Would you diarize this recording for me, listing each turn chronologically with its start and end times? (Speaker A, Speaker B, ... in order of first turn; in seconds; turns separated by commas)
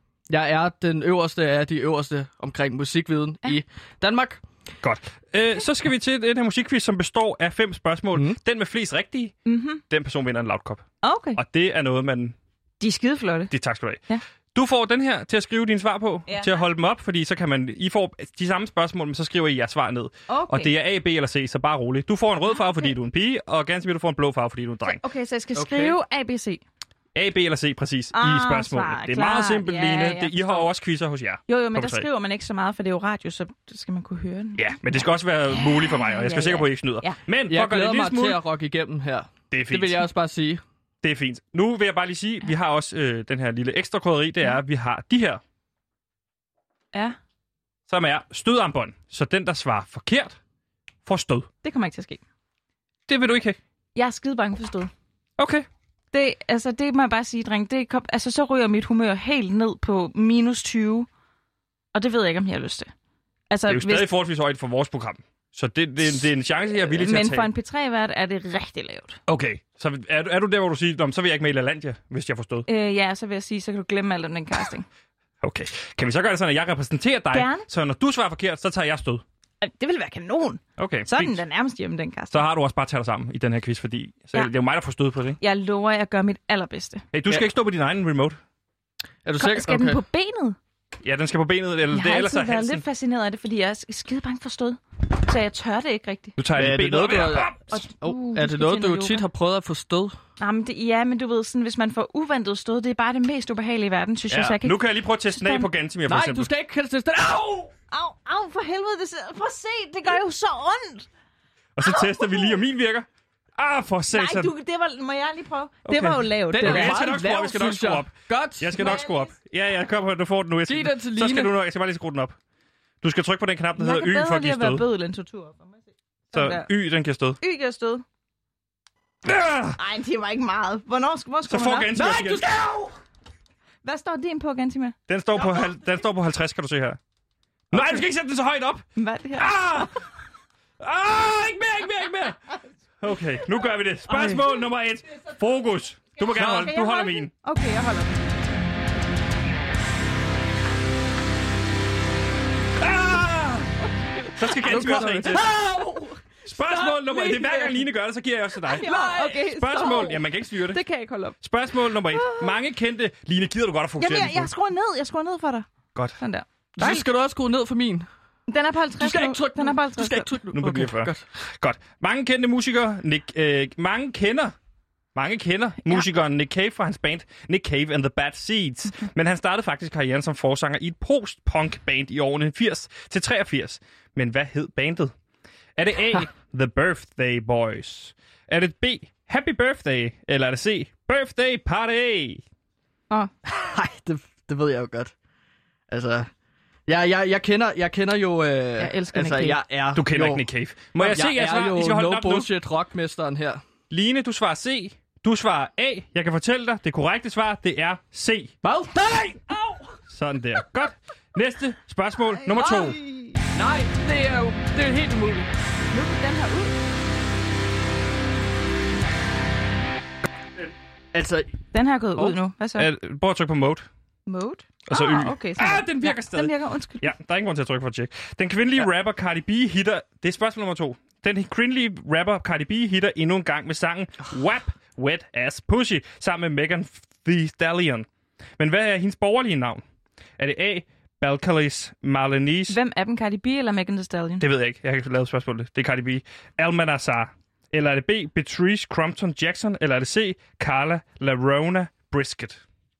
Speaker A: 0.3-4.4, Speaker B: 4.8-9.3, Speaker C: 9.5-9.8, Speaker B: 9.9-10.8, Speaker C: 11.0-11.4, Speaker B: 11.4-12.3, Speaker C: 12.8-13.5, Speaker B: 13.5-14.0, Speaker B: 14.6-25.0, Speaker C: 16.3-16.6, Speaker C: 20.3-20.7, Speaker C: 22.5-22.9, Speaker C: 24.9-26.6, Speaker A: 25.6-26.0, Speaker B: 27.1-32.1, Speaker C: 28.1-30.7, Speaker C: 31.5-37.2, Speaker B: 34.6-38.4, Speaker A: 37.5-40.6, Speaker B: 39.5-40.1, Speaker B: 41.0-45.4, Speaker B: 47.9-50.4, Speaker B: 51.1-51.5, Speaker C: 51.6-52.2, Speaker B: 53.1-53.6, Speaker C: 54.0-54.9, Speaker B: 55.4-55.7, Speaker C: 56.1-61.1, Speaker C: 61.9-62.9, Speaker C: 63.5-64.1, Speaker B: 63.7-67.5, Speaker C: 66.9-69.2, Speaker B: 69.3-72.7, Speaker C: 72.7-74.9, Speaker B: 75.4-79.2, Speaker C: 77.3-77.7, Speaker C: 79.6-82.4, Speaker B: 80.8-81.4, Speaker B: 82.3-85.4, Speaker C: 85.4-87.0, Speaker B: 87.1-88.4, Speaker A: 89.2-90.0, Speaker C: 89.4-90.6, Speaker B: 91.0-92.8, Speaker C: 91.9-96.3, Speaker B: 96.4-97.6, Speaker A: 96.6-100.1, Speaker C: 97.7-99.2, Speaker C: 100.4-105.7, Speaker B: 104.6-106.5, Speaker A: 106.1-107.7, Speaker C: 107.9-111.1, Speaker B: 111.8-114.5, Speaker C: 111.8-112.6, Speaker C: 114.1-117.0, Speaker B: 115.9-122.4, Speaker A: 116.5-118.9, Speaker C: 118.8-119.3, Speaker A: 120.7-121.5, Speaker B: 123.0-124.8, Speaker C: 123.8-125.8, Speaker C: 126.3-126.7, Speaker B: 126.3-127.4, Speaker C: 127.4-128.0, Speaker B: 129.2-129.8, Speaker C: 129.8-132.0, Speaker B: 131.5-132.5, Speaker A: 131.9-132.9, Speaker C: 133.8-135.0, Speaker B: 135.1-137.0, Speaker B: 137.7-139.9, Speaker C: 137.8-138.0, Speaker C: 139.0-139.9, Speaker B: 140.8-142.4, Speaker B: 143.0-147.3, Speaker C: 144.1-144.5, Speaker C: 146.3-148.3, Speaker B: 152.8-153.7, Speaker B: 154.3-155.5, Speaker C: 154.6-156.1, Speaker A: 154.6-156.1, Speaker B: 156.5-160.8, Speaker A: 156.8-157.5, Speaker C: 158.7-161.4, Speaker A: 158.8-159.4, Speaker B: 161.4-164.5, Speaker C: 161.9-162.5, Speaker C: 164.0-165.7, Speaker C: 166.2-167.1, Speaker A: 166.8-168.1, Speaker C: 168.5-170.3, Speaker A: 169.0-171.2, Speaker B: 170.5-174.6, Speaker B: 175.2-185.1, Speaker B: 185.8-192.4, Speaker A: 193.4-195.1, Speaker A: 195.9-196.3, Speaker A: 196.9-200.4, Speaker C: 198.8-199.6, Speaker B: 199.9-202.5, Speaker A: 201.0-203.6, Speaker B: 203.9-208.5, Speaker A: 208.6-209.9, Speaker B: 210.1-213.0, Speaker C: 212.5-213.4, Speaker A: 213.5-215.5, Speaker C: 215.9-216.7, Speaker A: 221.1-221.5, Speaker C: 221.7-222.9, Speaker B: 222.8-223.9, Speaker C: 224.3-227.1, Speaker B: 224.9-238.1, Speaker B: 238.6-239.8, Speaker B: 240.4-242.8, Speaker C: 242.7-244.4, Speaker B: 244.4-252.6